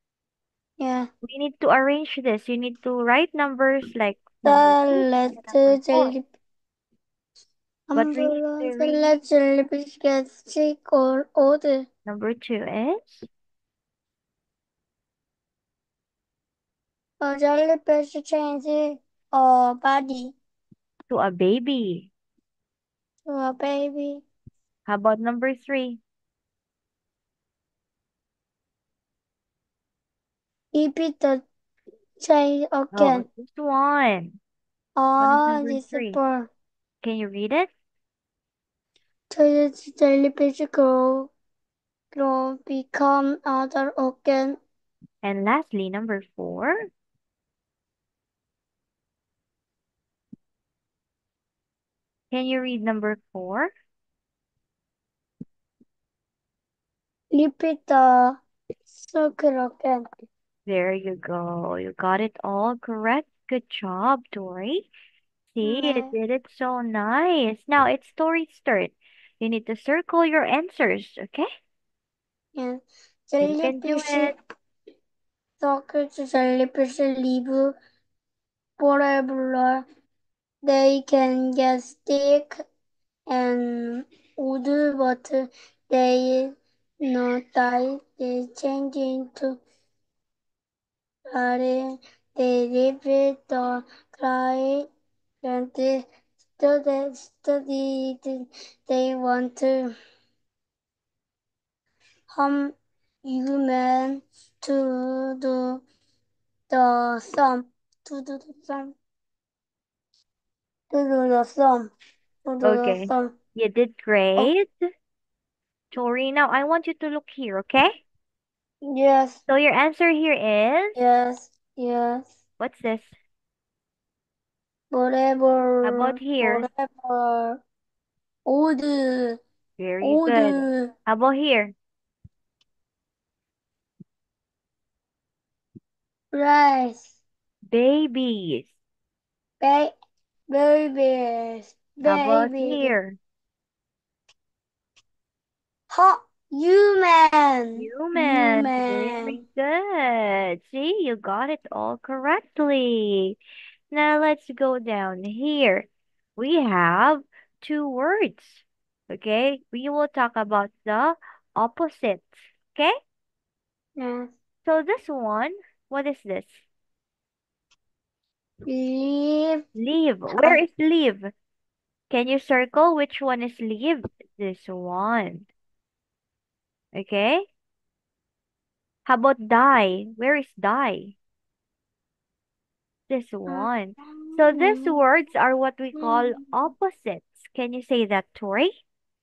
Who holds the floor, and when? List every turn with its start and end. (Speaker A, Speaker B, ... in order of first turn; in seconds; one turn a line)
Speaker A: 0.8-1.1
Speaker B: 1.2-6.1
Speaker A: 4.4-6.2
Speaker A: 7.9-11.9
Speaker B: 7.9-9.1
Speaker B: 12.1-13.3
Speaker A: 17.2-20.3
Speaker B: 21.1-22.1
Speaker A: 23.3-24.2
Speaker B: 24.9-26.0
Speaker A: 30.7-31.4
Speaker A: 32.2-33.2
Speaker B: 32.9-34.4
Speaker A: 35.0-36.5
Speaker B: 35.2-36.2
Speaker B: 37.0-37.7
Speaker A: 39.3-41.3
Speaker A: 42.1-44.6
Speaker B: 45.2-46.9
Speaker B: 52.3-53.7
Speaker A: 57.3-60.0
Speaker B: 60.6-64.9
Speaker B: 65.5-71.5
Speaker A: 65.6-66.1
Speaker A: 72.5-74.3
Speaker B: 73.4-74.3
Speaker A: 75.6-77.7
Speaker A: 78.8-79.8
Speaker A: 80.6-82.6
Speaker A: 83.3-89.6
Speaker A: 91.3-94.9
Speaker A: 95.4-96.0
Speaker A: 96.6-99.9
Speaker A: 102.3-105.8
Speaker A: 106.7-109.0
Speaker A: 110.9-111.9
Speaker A: 112.5-113.3
Speaker B: 112.6-114.7
Speaker B: 115.9-118.0
Speaker A: 118.8-119.4
Speaker B: 119.5-121.0
Speaker A: 121.0-122.3
Speaker B: 122.6-123.2
Speaker A: 124.9-127.6
Speaker B: 125.8-126.7
Speaker A: 128.5-129.4
Speaker B: 129.8-131.8
Speaker A: 130.0-130.9
Speaker A: 136.3-137.1
Speaker B: 137.7-138.7
Speaker A: 139.6-139.9
Speaker A: 140.5-142.9
Speaker B: 142.1-143.2
Speaker A: 145.9-149.4
Speaker B: 147.8-153.3
Speaker B: 153.9-162.9
Speaker A: 164.0-164.3
Speaker B: 164.6-166.6
Speaker A: 168.7-169.6
Speaker B: 169.8-171.3
Speaker A: 170.3-170.6
Speaker B: 172.1-175.5
Speaker B: 176.9-177.4
Speaker B: 179.1-181.1
Speaker B: 183.1-188.7
Speaker A: 183.5-185.0
Speaker A: 185.9-186.5